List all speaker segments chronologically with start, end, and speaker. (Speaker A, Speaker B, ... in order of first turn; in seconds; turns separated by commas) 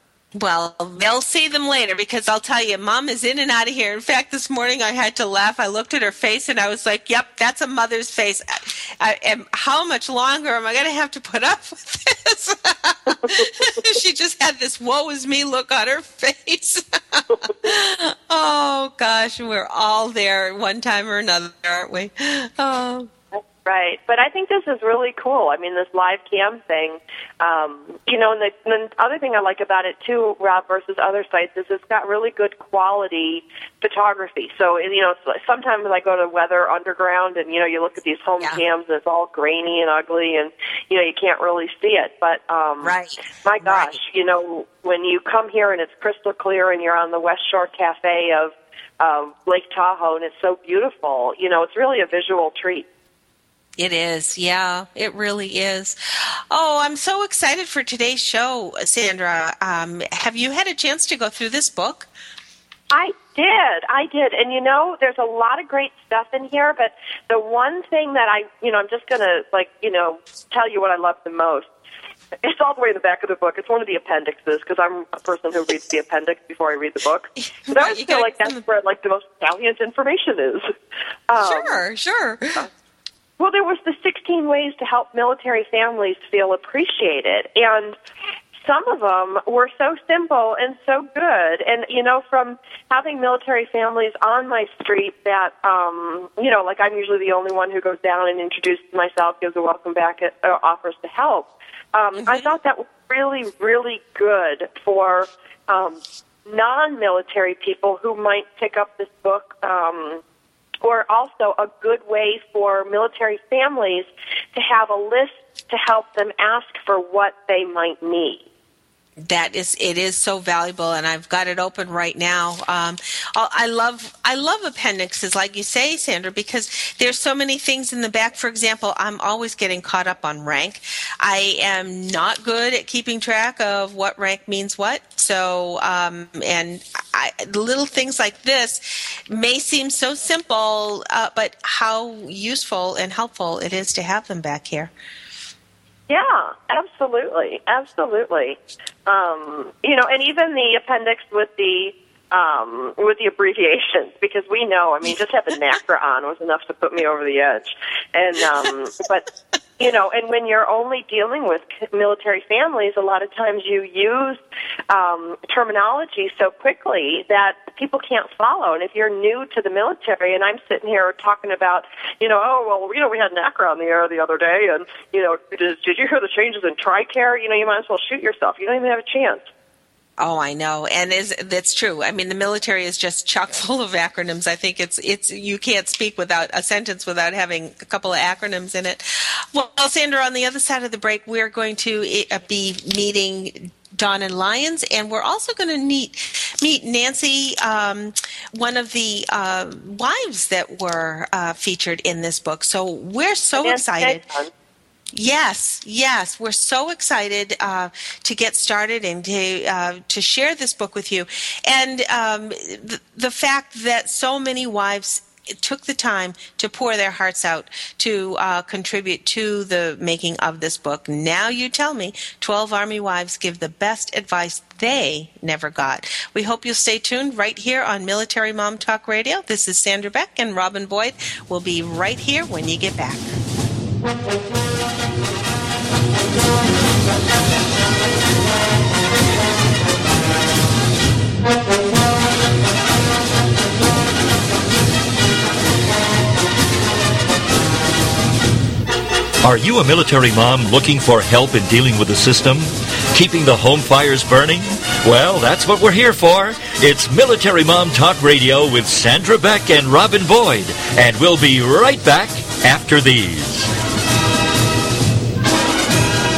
Speaker A: 0.3-23.1, Speaker B: 23.4-52.9, Speaker A: 38.4-38.6, Speaker A: 42.8-44.0, Speaker A: 53.8-62.1, Speaker B: 62.9-71.7, Speaker B: 72.4-80.7, Speaker A: 77.7-78.6, Speaker B: 81.3-81.8, Speaker A: 81.4-82.7, Speaker B: 83.4-88.0, Speaker B: 88.6-110.2, Speaker A: 102.2-102.5, Speaker B: 110.8-118.4, Speaker A: 119.2-144.9, Speaker B: 146.1-159.3, Speaker B: 159.8-179.4, Speaker A: 180.2-204.2, Speaker B: 203.6-204.5, Speaker A: 205.1-233.3, Speaker C: 249.4-263.7